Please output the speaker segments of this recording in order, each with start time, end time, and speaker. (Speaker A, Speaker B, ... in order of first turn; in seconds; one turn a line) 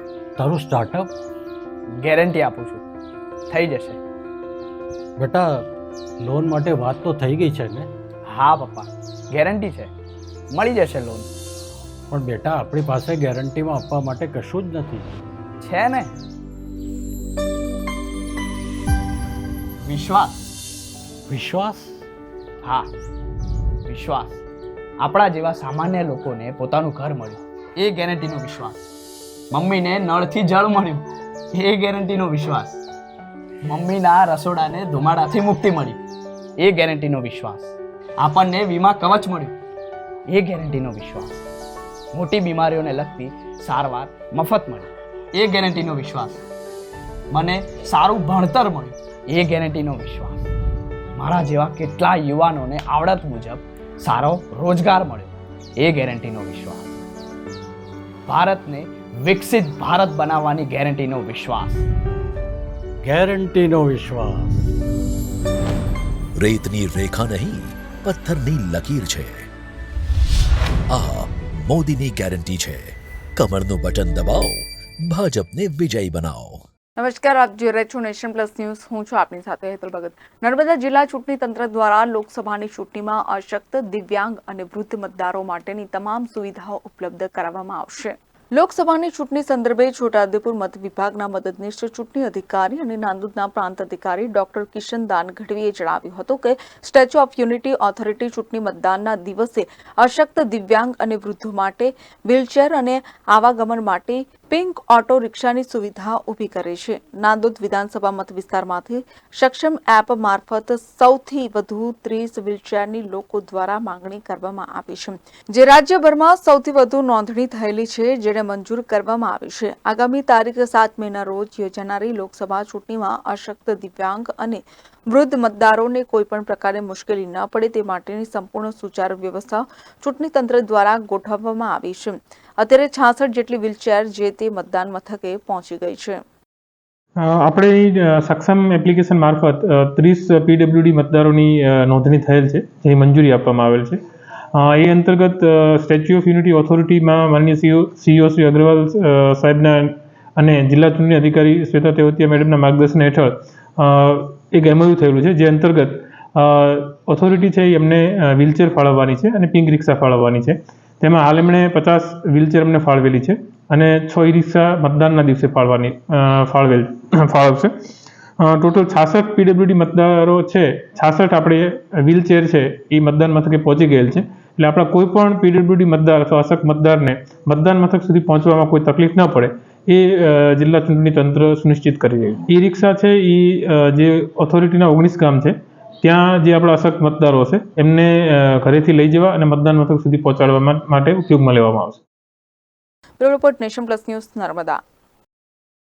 Speaker A: 0.4-1.1
Speaker B: 2.0-2.8
Speaker B: 3.5-4.0
Speaker A: 5.2-5.7
Speaker A: 6.2-7.9
Speaker B: 8.3-9.9
Speaker B: 10.5-11.3
Speaker A: 12.1-15.2
Speaker B: 15.6-16.1
Speaker B: 19.9-20.4
Speaker A: 21.3-22.1
Speaker B: 23.9-24.4
Speaker B: 25.0-28.8
Speaker B: 29.5-32.8
Speaker B: 33.6-36.0
Speaker B: 36.6-39.6
Speaker B: 40.3-41.5
Speaker B: 42.1-46.4
Speaker B: 47.3-50.5
Speaker B: 51.2-57.0
Speaker B: 58.3-61.9
Speaker A: 63.0-64.7
Speaker C: 66.4-69.5
Speaker C: 70.9-76.6
Speaker D: 77.0-136.2
Speaker E: 137.2-144.0
Speaker E: 144.6-167.7
Speaker E: 168.4-192.0
Speaker D: 193.2-194.8